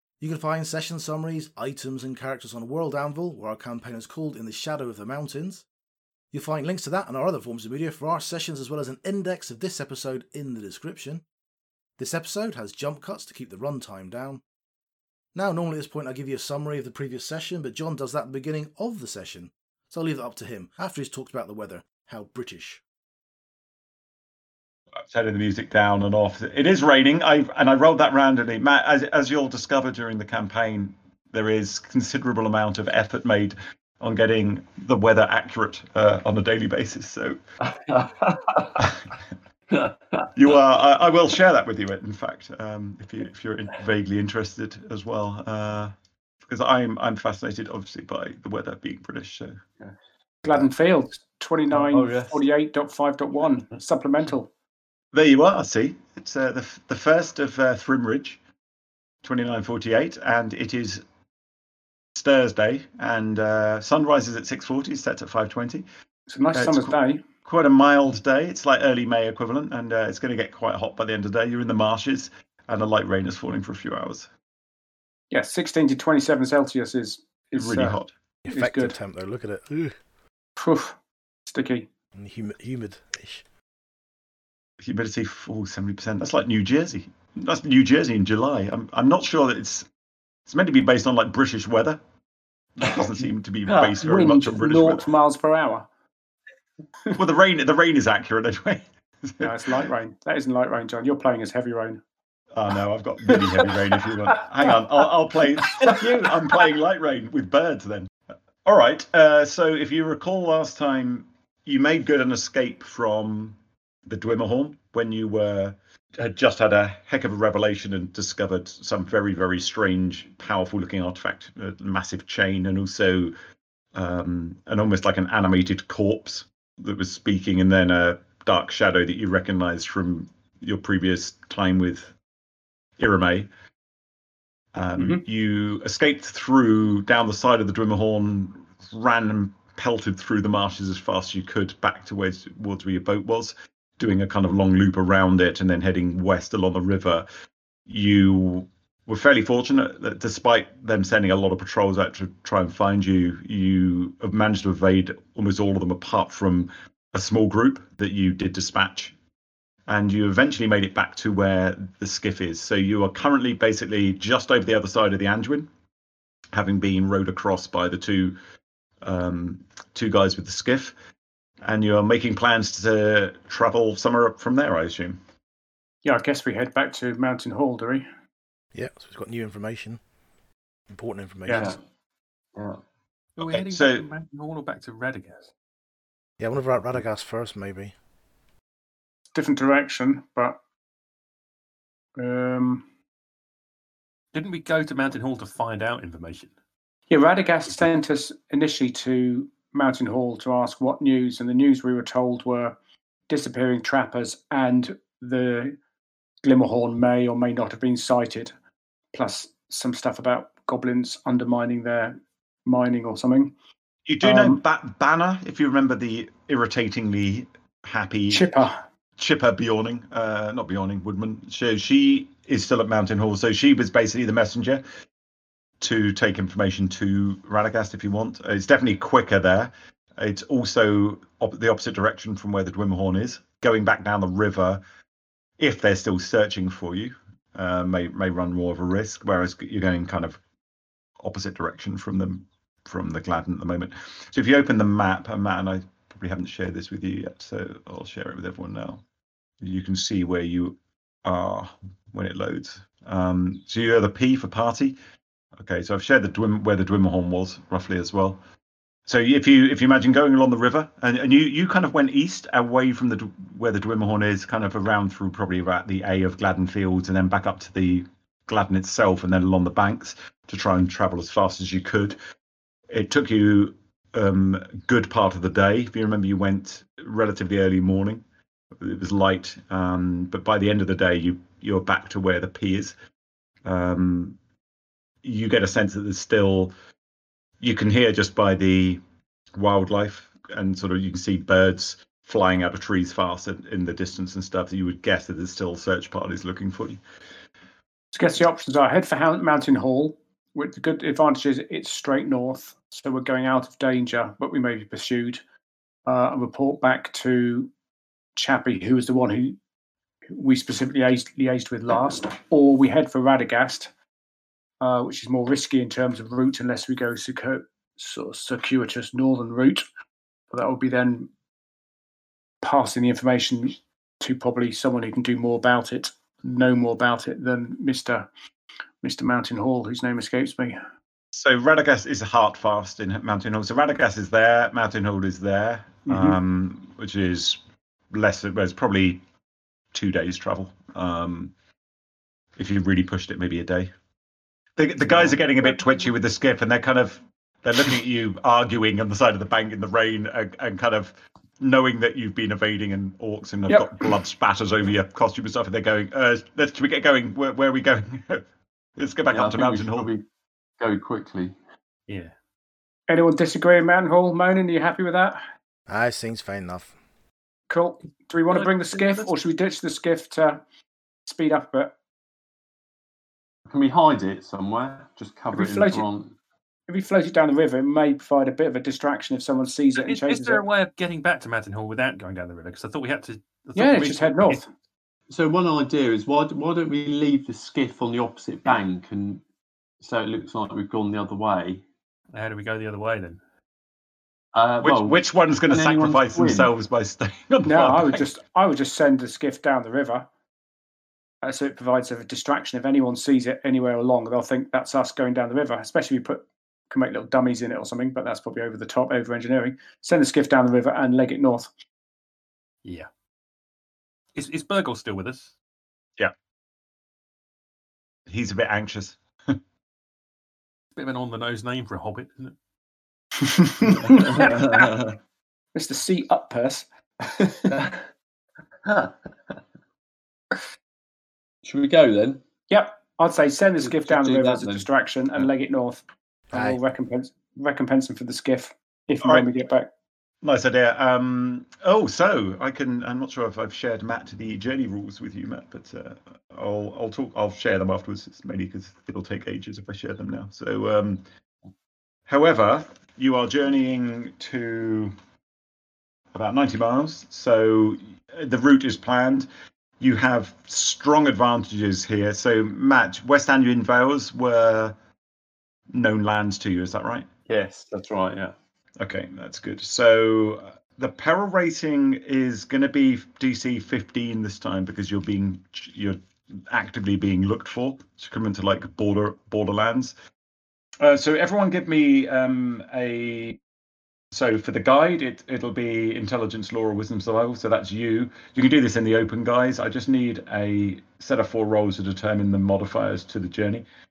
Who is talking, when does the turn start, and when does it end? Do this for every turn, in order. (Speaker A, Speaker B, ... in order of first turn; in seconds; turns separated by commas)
Speaker A: 0.2-5.7, Speaker A: 6.3-11.2, Speaker A: 12.0-14.4, Speaker A: 15.3-22.8, Speaker B: 25.0-37.4, Speaker C: 37.6-38.9, Speaker B: 38.8-39.1, Speaker C: 39.7-40.3, Speaker B: 40.3-45.9, Speaker B: 46.5-49.6, Speaker D: 50.4-54.5, Speaker C: 51.7-52.4, Speaker B: 55.1-58.4, Speaker B: 59.2-61.0, Speaker B: 62.1-65.8, Speaker D: 66.3-67.2, Speaker B: 66.5-66.9, Speaker B: 67.5-74.3, Speaker D: 75.3-79.0, Speaker B: 77.6-78.1, Speaker A: 78.5-80.0, Speaker D: 80.6-81.9, Speaker A: 82.2-83.4, Speaker B: 84.8-89.9, Speaker B: 90.5-92.0, Speaker B: 92.8-95.0, Speaker D: 93.7-95.9, Speaker B: 97.2-99.5, Speaker D: 99.4-102.0, Speaker B: 102.5-108.1, Speaker D: 105.6-106.1, Speaker B: 108.7-123.3, Speaker B: 124.0-132.1, Speaker B: 133.0-133.5, Speaker B: 134.7-147.2, Speaker B: 147.9-159.1, Speaker B: 159.9-165.7, Speaker B: 166.5-168.3, Speaker B: 169.0-170.9, Speaker B: 171.6-175.2, Speaker D: 176.0-178.1, Speaker A: 178.7-180.0, Speaker A: 180.9-181.7, Speaker D: 181.4-181.8, Speaker C: 181.5-181.8, Speaker C: 182.5-182.8, Speaker E: 183.4-185.5, Speaker B: 183.4-184.1, Speaker A: 186.4-187.9, Speaker D: 189.3-190.6, Speaker D: 192.2-192.8, Speaker E: 194.3-196.5, Speaker D: 197.1-202.8, Speaker D: 203.3-205.8, Speaker D: 206.4-208.5, Speaker D: 209.1-213.5, Speaker B: 214.1-218.4, Speaker D: 214.2-214.6, Speaker D: 218.3-218.8, Speaker B: 219.2-224.8, Speaker B: 225.8-234.8, Speaker B: 235.6-240.4, Speaker B: 241.2-249.0, Speaker B: 249.6-255.0, Speaker B: 255.6-258.4, Speaker B: 259.1-272.2, Speaker B: 272.9-278.2, Speaker B: 278.8-282.9, Speaker B: 283.6-284.4, Speaker B: 285.2-286.7, Speaker B: 287.6-289.0, Speaker B: 289.6-297.0, Speaker D: 298.1-305.4, Speaker D: 306.1-307.7, Speaker D: 308.4-309.6, Speaker D: 310.3-313.9, Speaker D: 314.8-319.8, Speaker D: 320.5-321.3, Speaker D: 322.6-328.3, Speaker D: 329.0-330.8, Speaker B: 331.3-337.6, Speaker D: 336.1-336.4, Speaker B: 338.1-339.2, Speaker B: 339.9-341.5, Speaker B: 342.6-343.9, Speaker B: 344.8-358.4, Speaker D: 353.7-353.9, Speaker B: 359.0-360.1, Speaker C: 359.3-360.2, Speaker C: 360.8-361.6, Speaker E: 362.1-362.3, Speaker D: 363.1-365.4, Speaker A: 365.9-366.9, Speaker D: 367.7-370.6, Speaker E: 368.5-369.3, Speaker D: 371.2-371.9, Speaker C: 373.7-376.4, Speaker D: 375.5-376.1, Speaker D: 376.9-380.6, Speaker E: 380.0-384.6, Speaker D: 383.8-384.7, Speaker C: 385.3-389.4, Speaker C: 390.0-391.8, Speaker E: 392.3-393.4, Speaker C: 394.5-396.7, Speaker B: 394.8-398.2, Speaker D: 397.6-400.3, Speaker D: 401.4-411.7, Speaker E: 414.4-415.5, Speaker B: 418.3-419.6, Speaker E: 421.0-422.6, Speaker D: 423.4-424.9, Speaker C: 424.0-425.2, Speaker D: 425.8-427.8, Speaker C: 427.7-428.0, Speaker C: 428.9-429.6, Speaker C: 431.6-432.4, Speaker D: 432.7-439.9, Speaker C: 433.8-434.9, Speaker A: 436.5-436.8, Speaker B: 440.4-451.2, Speaker B: 452.3-455.1, Speaker B: 456.3-459.5, Speaker B: 460.0-464.9, Speaker B: 465.9-467.3, Speaker C: 467.5-468.5, Speaker B: 469.0-476.2, Speaker B: 476.7-480.1, Speaker B: 481.0-483.6, Speaker B: 484.3-493.9